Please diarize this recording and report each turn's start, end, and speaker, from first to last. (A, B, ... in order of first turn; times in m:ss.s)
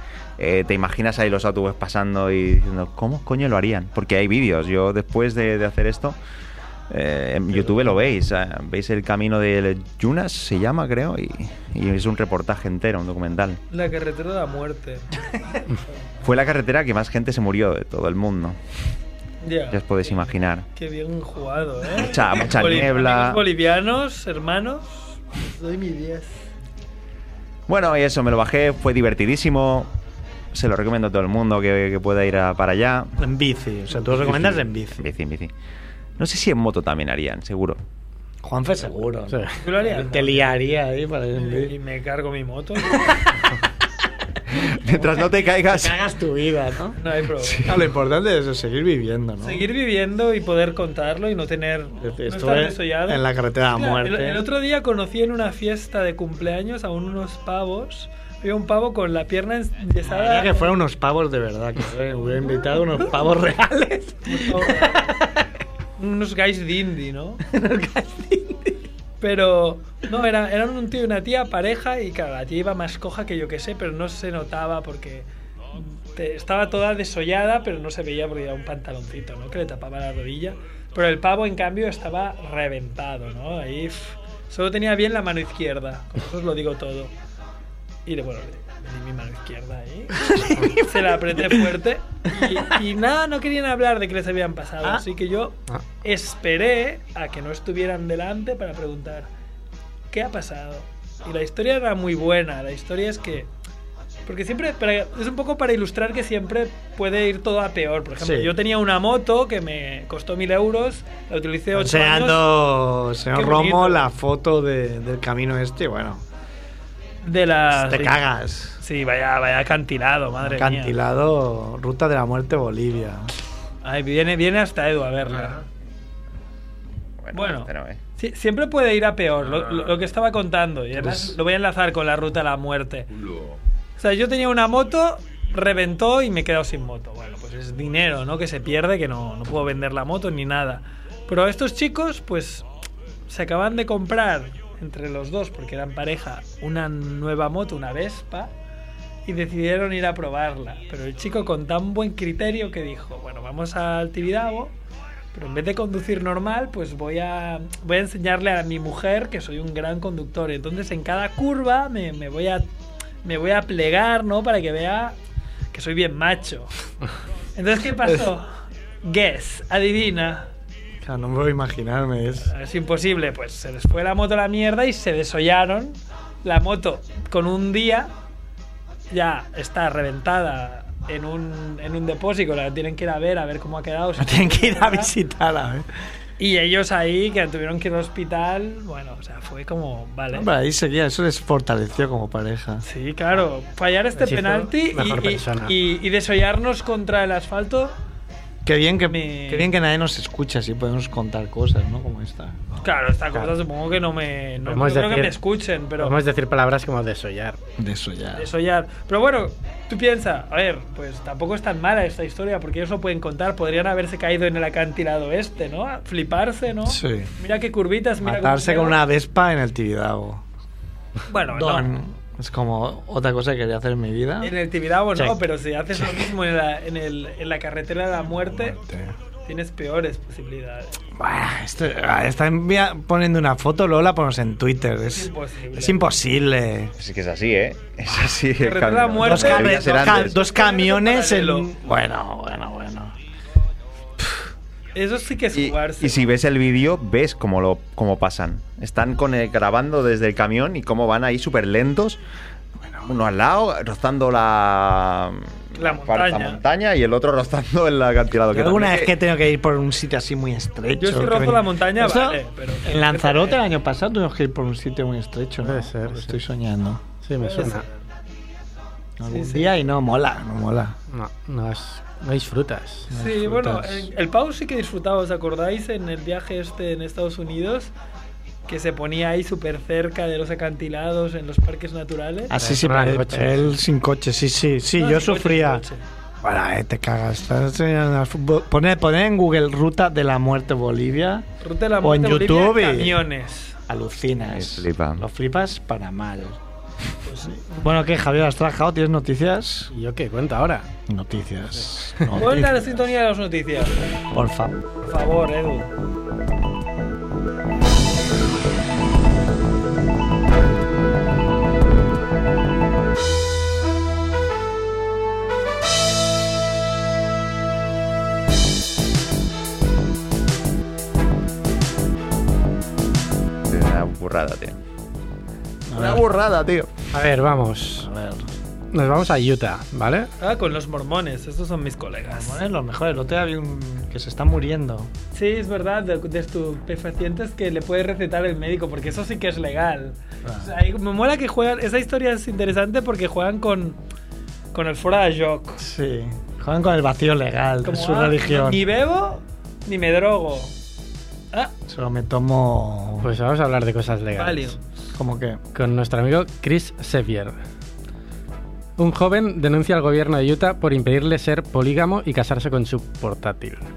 0:00.4-0:06.2 A
0:06.9-0:13.6 A
0:13.7-0:15.3 B
0:16.2-0:18.6 A
0:19.4-0:26.3 B
0:19.7-0:20.7 A
0:21.9-0:23.4 A
0:27.7-0:29.9 A
0:30.5-0:33.1 A
0:33.2-0:35.1 C
0:34.1-0:35.5 A
0:36.2-0:37.8 A
0:38.4-0:41.7 C
0:39.6-0:40.5 B
0:41.4-0:43.2 B
0:44.5-0:45.9 A
0:44.9-0:47.0 C
0:47.0-0:47.7 B
0:47.4-0:47.8 A
0:47.7-0:49.6 C
0:49.4-1:00.7 B
0:52.0-0:54.4 C
1:00.1-1:05.3 C
1:04.2-1:05.1 B
1:06.0-1:07.4 B
1:07.5-1:08.7 C
1:09.2-1:27.1 B
1:28.1-1:39.3 B
1:30.2-1:31.5 C
1:40.1-1:43.5 B
1:44.3-1:52.5 B
1:48.2-1:48.5 C
1:51.7-1:56.2 C
1:53.3-1:54.1 B
1:57.2-1:58.3 B
1:57.7-1:58.8 C
1:58.8-2:01.0 B
2:00.4-2:03.3 C
2:03.8-2:05.6 B
2:07.2-2:08.0 A
2:07.3-2:13.1 B
2:11.0-2:11.4 C
2:14.0-2:22.7 B
2:23.3-2:28.5 B
2:29.2-2:34.7 B
2:35.3-2:42.6 B
2:43.2-2:45.2 B
2:45.7-2:46.7 B
2:47.6-2:48.5 B
2:49.0-2:50.5 B
2:51.0-2:52.5 C
2:52.4-2:58.1 B
2:59.1-3:05.1 B
3:04.2-3:05.9 C
3:06.4-3:10.5 B
3:10.3-3:12.8 C
3:12.8-3:18.0 B
3:14.1-3:15.7 D
3:18.6-3:22.6 C
3:19.1-3:19.7 B
3:22.8-3:26.2 B
3:24.6-3:25.4 D
3:26.0-3:27.6 D
3:27.8-3:28.5 C
3:28.4-3:39.0 B
3:36.9-3:37.3 C
3:38.2-3:40.4 C
3:41.3-3:41.9 B
3:41.5-3:44.5 C
3:44.4-3:48.8 B
3:48.5-3:49.1 C
3:49.4-3:51.0 B
3:51.2-3:56.9 C
3:55.1-3:56.1 B
3:57.0-4:00.4 A
3:58.6-4:01.7 B
3:59.2-4:03.2 C
4:05.0-4:06.3 B
4:05.5-4:12.2 A
4:13.0-4:19.1 A
4:15.8-4:16.6 B
4:18.5-4:27.0 C
4:21.0-4:23.6 B
4:25.6-4:26.4 D
4:27.2-4:27.8 D
4:27.4-4:27.9 B
4:29.2-4:31.0 C
4:29.3-4:29.7 B
4:31.1-4:33.1 D
4:33.1-4:34.1 C
4:33.1-4:37.9 B
4:38.7-4:42.5 B
4:42.5-4:45.8 C
4:42.5-4:43.8 D
4:45.0-4:46.0 B
4:46.4-4:51.5 C
4:51.6-4:53.8 B
4:52.0-4:53.2 C
4:53.9-4:56.6 C
4:54.5-4:55.2 A
4:57.3-4:57.6 B
4:57.5-4:59.9 C
4:59.9-5:00.9 D
5:01.1-5:02.8 C
5:02.4-5:04.0 B
5:04.3-5:04.8 C
5:05.0-5:05.9 B
5:23.7-5:24.8 A
5:25.9-5:26.2 C
5:26.0-5:26.9 A
5:27.1-5:28.1 D
5:28.0-5:28.5 C
5:28.9-5:30.3 D
5:30.4-5:32.6 B
5:32.3-5:35.1 C
5:35.3-5:44.0 B
5:44.7-5:45.8 B
5:45.8-5:48.8 C
5:47.8-5:50.7 B
5:51.9-5:53.3 C
5:53.2-5:54.8 D
5:54.4-5:54.8 B
5:55.2-5:55.6 C
5:55.7-5:57.6 D
5:59.0-6:03.8 D